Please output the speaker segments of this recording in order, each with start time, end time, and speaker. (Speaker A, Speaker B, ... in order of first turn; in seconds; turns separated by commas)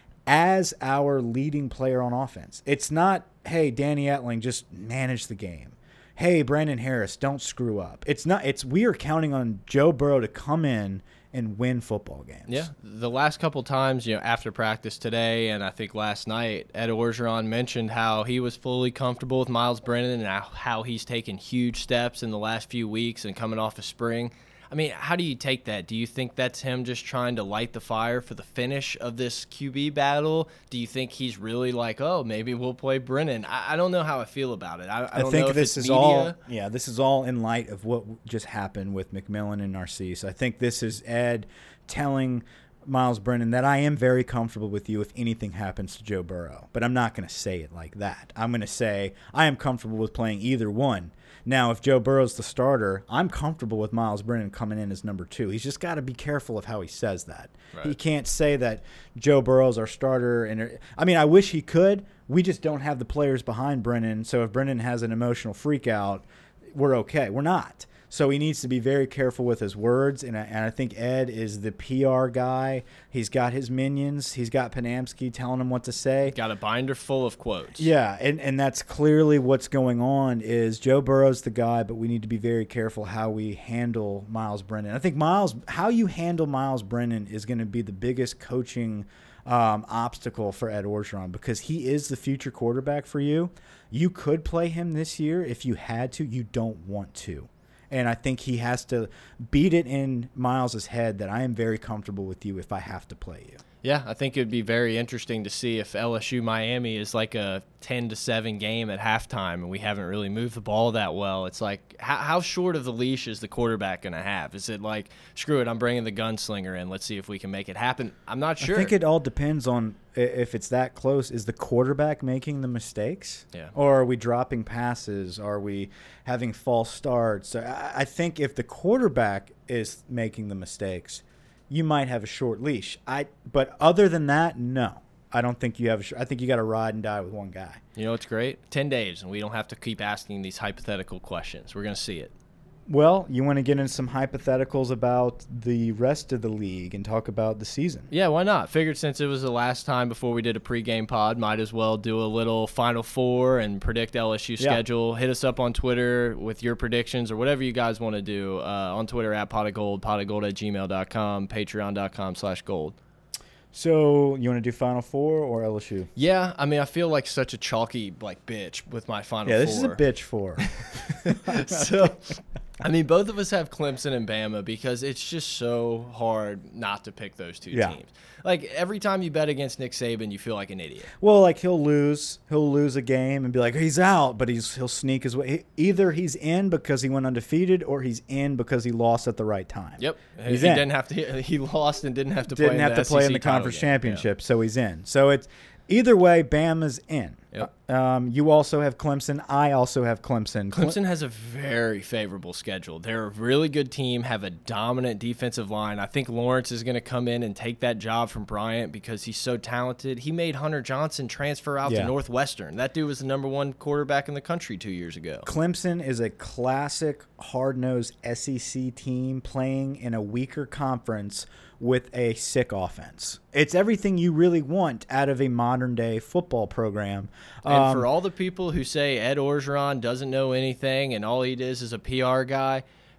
Speaker A: 0.3-12.7, Speaker B: 12.5-36.4, Speaker A: 35.1-76.4, Speaker B: 76.3-77.9, Speaker A: 77.8-103.6, Speaker B: 103.8-118.9, Speaker A: 118.6-137.8, Speaker B: 138.0-142.3, Speaker A: 142.9-148.1, Speaker B: 148.1-163.0, Speaker A: 163.7-166.1, Speaker B: 166.2-170.0, Speaker A: 169.5-171.9, Speaker B: 170.6-181.1, Speaker A: 181.2-190.9, Speaker B: 190.0-194.2, Speaker A: 192.5-201.0, Speaker B: 200.7-215.5, Speaker A: 211.9-212.1, Speaker A: 215.5-228.1, Speaker B: 227.7-232.8